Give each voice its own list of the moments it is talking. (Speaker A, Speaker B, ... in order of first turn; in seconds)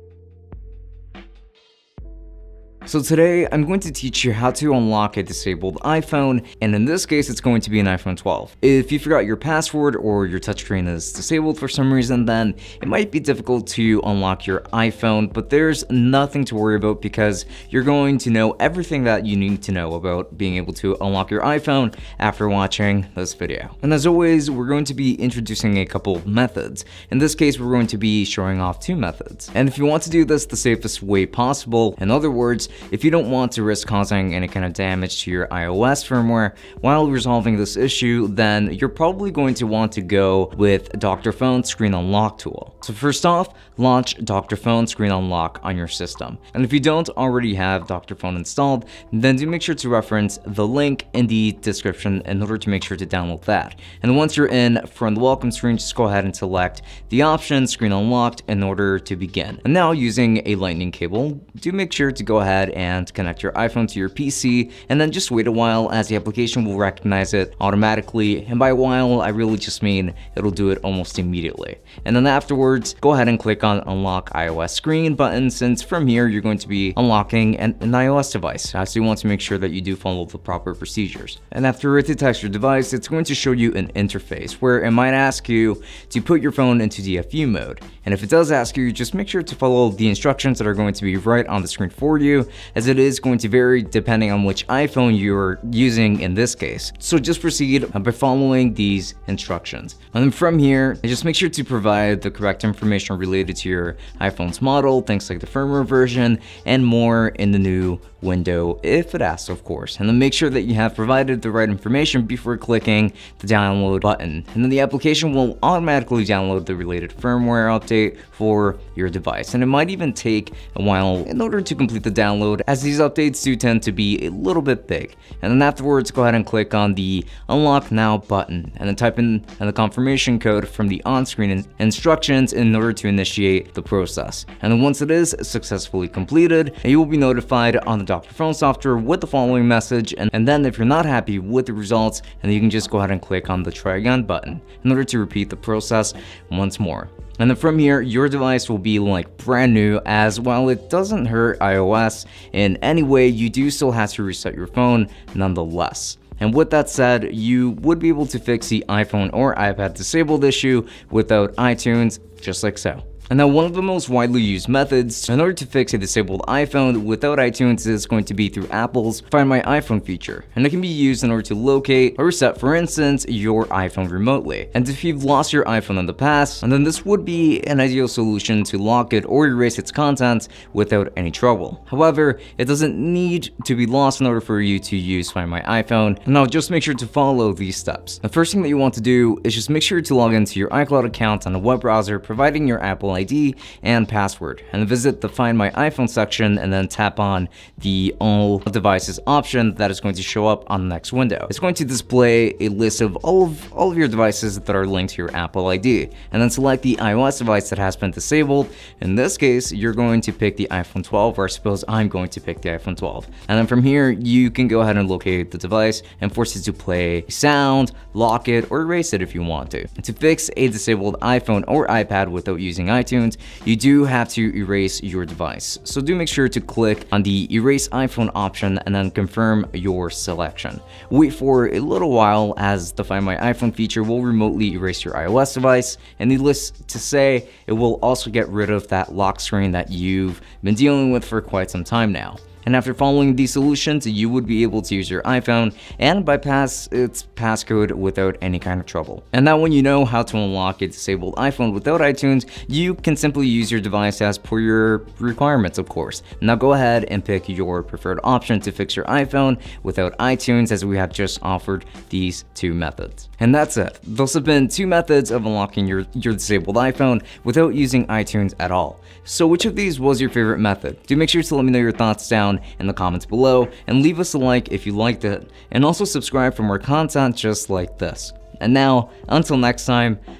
Speaker A: 2.9-280.2